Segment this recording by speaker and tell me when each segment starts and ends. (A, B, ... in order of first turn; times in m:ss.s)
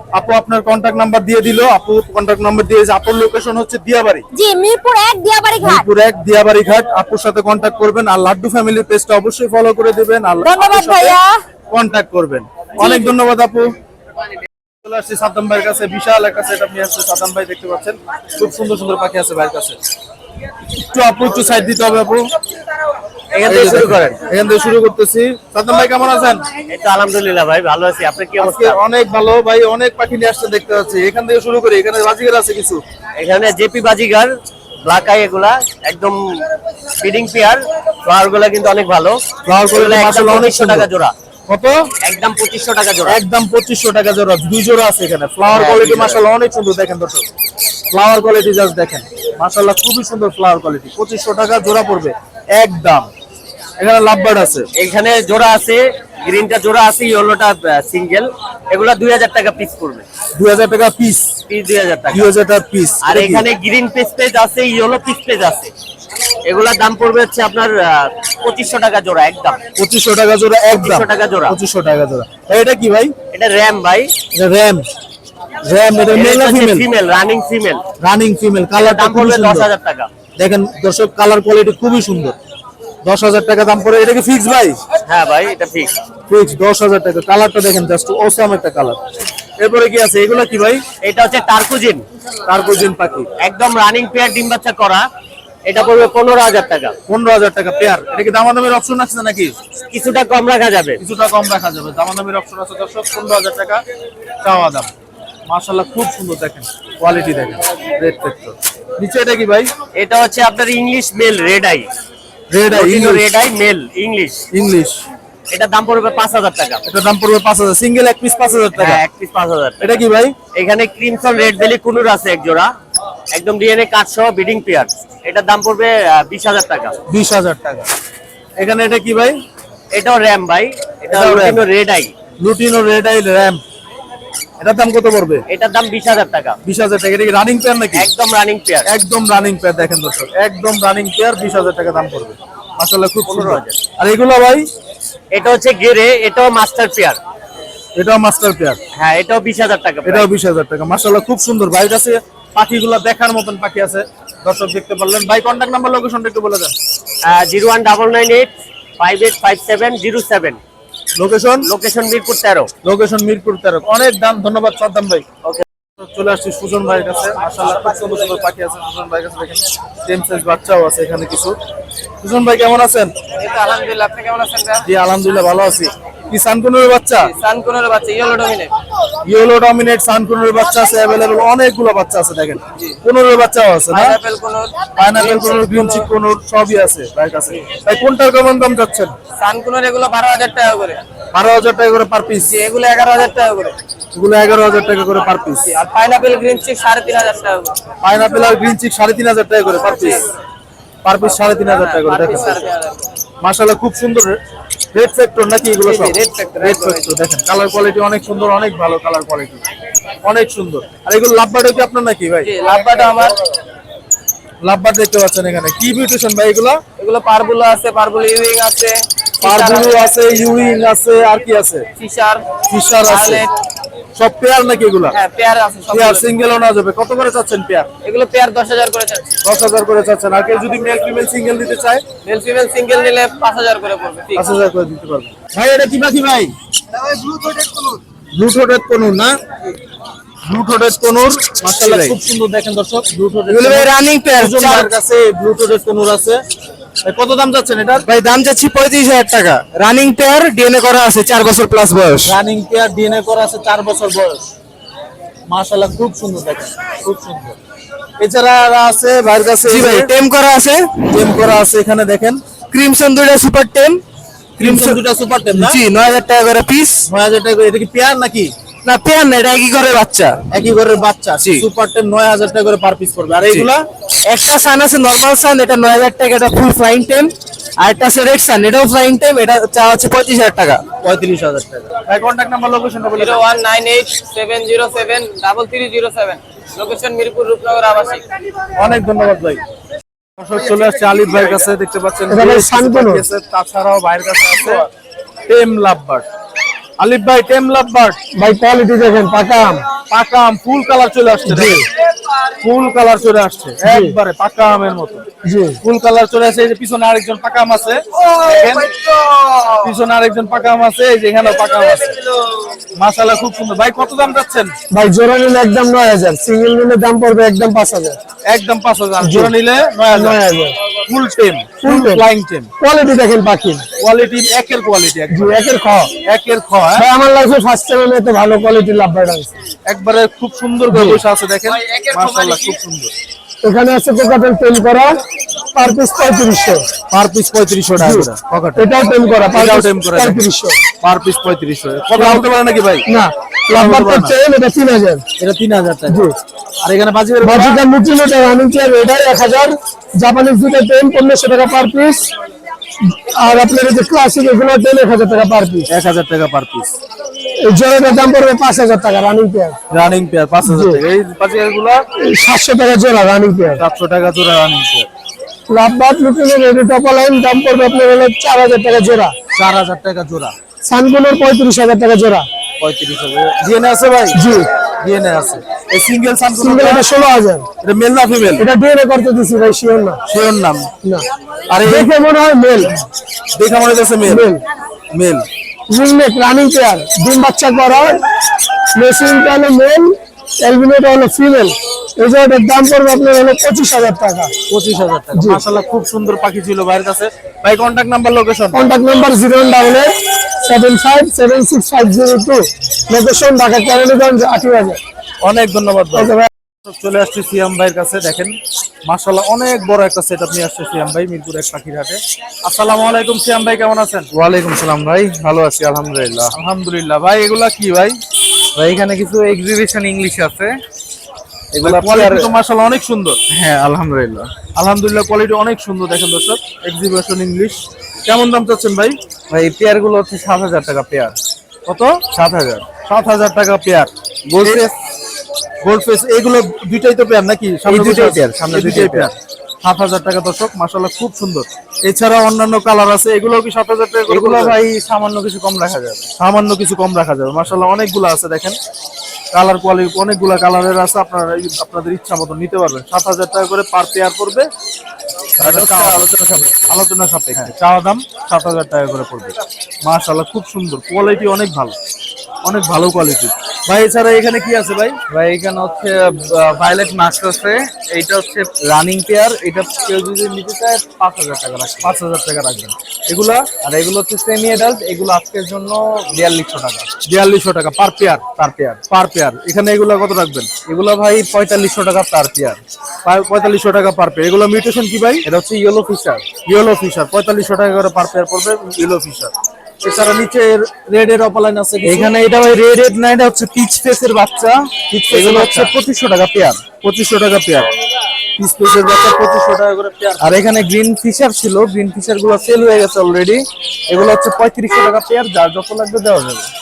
0:00.1-0:04.2 A
0:04.3-0:05.8 B
0:05.6-0:11.2 A
0:10.4-0:11.4 B
0:11.7-0:13.7 A
0:12.8-0:13.2 B
0:14.8-0:19.8 A
0:20.8-0:22.3 A
0:23.3-0:24.2 C
0:23.4-0:26.4 A
0:26.7-0:28.8 C
0:28.4-0:32.8 A
0:33.1-0:34.3 C
0:34.8-0:36.4 C
0:37.0-0:41.1 C
0:39.4-0:40.9 A
0:41.5-0:41.9 A
0:42.0-0:43.2 C
0:43.1-0:47.3 A
0:45.5-0:46.2 C
0:47.9-0:53.1 A
0:53.8-0:54.7 A
0:54.7-1:00.0 C
1:00.4-1:01.3 A
1:01.5-1:02.3 C
1:02.1-1:03.4 A
1:03.0-1:05.7 C
1:06.4-1:09.6 C
1:09.8-1:13.1 A
1:10.7-1:11.6 C
1:13.3-1:14.1 C
1:14.3-1:14.8 A
1:15.6-1:16.8 A
1:16.1-1:17.8 C
1:18.0-1:19.7 A
1:18.7-1:20.1 C
1:20.4-1:22.4 A
1:23.0-1:24.8 A
1:25.0-1:25.9 C
1:26.3-1:29.0 A
1:29.6-1:30.8 A
1:31.0-1:32.0 C
1:32.5-1:33.3 A
1:33.4-1:35.0 C
1:35.6-1:37.0 C
1:37.1-1:39.5 A
1:39.9-1:41.0 C
1:41.0-1:43.8 A
1:44.4-1:44.9 A
1:45.5-1:49.7 A
1:49.9-1:51.9 C
1:52.5-1:53.3 A
1:52.7-1:54.4 C
1:54.5-1:55.0 A
1:55.5-1:56.8 C
1:56.8-1:59.0 A
1:58.7-2:00.0 C
1:59.8-2:00.3 A
2:00.5-2:02.7 C
2:03.3-2:07.0 C
2:07.1-2:07.9 A
2:08.6-2:09.4 A
2:09.9-2:12.1 C
2:11.1-2:11.6 A
2:12.4-2:13.6 A
2:14.6-2:15.4 A
2:15.5-2:16.6 C
2:16.6-2:18.1 A
2:17.9-2:18.9 C
2:18.9-2:24.6 A
2:23.3-2:23.8 C
2:25.3-2:27.2 C
2:28.0-2:28.8 A
2:28.9-2:30.3 C
2:30.0-2:36.7 A
2:37.2-2:40.6 C
2:41.2-2:41.7 A
2:41.6-2:42.7 C
2:42.8-2:45.3 A
2:46.0-2:51.6 A
2:52.2-2:53.1 A
2:53.4-2:54.8 D
2:54.8-2:57.3 A
2:57.2-2:58.7 D
2:59.2-3:04.2 A
3:03.9-3:06.0 D
3:05.0-3:09.1 A
3:09.4-3:11.0 D
3:11.3-3:12.5 A
3:12.4-3:13.7 D
3:14.1-3:15.7 A
3:15.6-3:17.7 D
3:18.0-3:20.2 A
3:21.0-3:22.7 A
3:21.4-3:23.0 D
3:23.4-3:24.4 A
3:24.9-3:29.6 A
3:25.8-3:27.1 D
3:30.2-3:32.5 A
3:32.4-3:33.4 D
3:34.6-3:36.8 A
3:37.0-3:40.0 D
3:39.4-3:41.9 A
3:42.0-3:42.5 D
3:42.7-3:43.4 A
3:43.0-3:43.5 D
3:44.2-3:45.1 A
3:45.1-3:46.2 D
3:45.9-3:47.9 A
3:48.0-3:49.3 D
3:49.4-3:52.0 A
3:52.2-3:54.5 D
3:54.3-3:56.5 A
3:58.3-3:59.3 A
4:00.4-4:06.4 A
4:03.5-4:04.9 E
4:07.0-4:08.0 A
4:08.0-4:12.4 E
4:12.2-4:14.4 A
4:15.5-4:17.6 A
4:18.2-4:20.1 A
4:19.6-4:21.0 E
4:21.1-4:22.4 A
4:22.7-4:24.0 E
4:24.6-4:25.8 A
4:24.6-4:27.0 E
4:27.1-4:28.5 A
4:28.8-4:30.4 E
4:30.5-4:33.8 A
4:31.4-4:31.6 E
4:34.3-4:41.0 E
4:41.0-4:43.4 A
4:43.1-4:48.2 D
4:48.8-4:49.6 A
4:50.4-4:54.8 A
4:52.3-4:53.2 F
4:55.5-4:56.2 A
4:57.0-4:58.2 A
4:58.3-4:59.8 F
5:00.1-5:01.9 A
5:01.4-5:01.8 F
5:02.6-5:05.3 A
5:03.8-5:04.1 F
5:05.4-5:05.8 F
5:05.8-5:09.0 A
5:09.3-5:09.6 D
5:09.8-5:12.2 A
5:13.0-5:14.8 A
5:14.9-5:18.2 F
5:18.4-5:20.4 A
5:19.2-5:19.5 F
5:20.1-5:20.8 F
5:21.1-5:22.7 A
5:21.8-5:22.2 F
5:22.8-5:23.8 F
5:24.0-5:25.6 A
5:25.3-5:26.1 F
5:26.2-5:27.1 A
5:27.0-5:29.5 F
5:29.8-5:33.1 A
5:30.9-5:31.2 F
5:31.7-5:32.8 D
5:33.6-5:35.2 F
5:35.7-5:36.9 F
5:37.1-5:38.9 A
5:38.0-5:40.8 F
5:39.4-5:40.4 A
5:41.0-5:43.1 A
5:42.1-5:42.5 F
5:43.0-5:45.2 F
5:43.7-5:44.4 A
5:45.4-5:46.2 A
5:46.1-5:46.3 F
5:46.8-5:47.8 A
5:47.4-5:52.3 F
5:53.0-5:55.9 F
5:55.9-5:56.9 A
5:57.6-5:59.8 F
5:59.9-6:02.0 A
6:00.6-6:01.0 F
6:02.2-6:03.8 F
6:03.8-6:05.1 A
6:05.7-6:09.3 F
6:09.5-6:10.5 A
6:10.8-6:12.5 F
6:12.8-6:13.5 G
6:13.5-6:14.4 A
6:14.3-6:14.7 F
6:15.0-6:17.1 A
6:16.6-6:17.7 F
6:17.8-6:18.7 A
6:18.6-6:20.2 F
6:20.3-6:20.9 A
6:21.7-6:22.1 A
6:21.8-6:22.9 F
6:23.6-6:24.5 A
6:24.2-6:24.6 F
6:25.1-6:25.4 A
6:25.9-6:28.2 F
6:28.9-6:34.5 F
6:34.7-6:38.8 A
6:35.3-6:35.6 F
6:38.7-6:45.0 F
6:45.4-6:46.3 A
6:46.1-6:46.5 F
6:46.8-6:54.3 A
6:54.3-6:56.5 G
6:56.5-6:58.2 A
6:58.8-7:00.7 G
7:01.7-7:02.5 G
7:01.8-7:03.4 A
7:03.5-7:04.5 G
7:04.8-7:09.2 A
7:09.5-7:11.3 G
7:11.9-7:12.2 A
7:12.3-7:12.8 G
7:13.0-7:14.1 A
7:14.5-7:14.9 G
7:14.6-7:14.9 A
7:15.8-7:24.8 A
7:17.8-7:19.3 G
7:24.3-7:26.3 G
7:26.4-7:28.8 A
7:29.5-7:34.7 A
7:35.6-7:36.9 G
7:35.6-7:39.5 A
7:40.0-7:42.0 A
7:42.6-7:45.2 A
7:45.3-7:52.1 G
7:52.0-7:53.7 A
7:53.8-7:57.1 G
7:57.2-8:00.7 A
7:58.5-7:59.0 G
8:00.8-8:02.8 G
8:03.2-8:05.4 A
8:05.4-8:06.4 G
8:06.7-8:09.5 A
8:10.0-8:12.3 A
8:12.0-8:16.8 G
8:15.3-8:15.9 A
8:17.0-8:17.9 A
8:18.6-8:20.6 A
8:20.4-8:26.7 G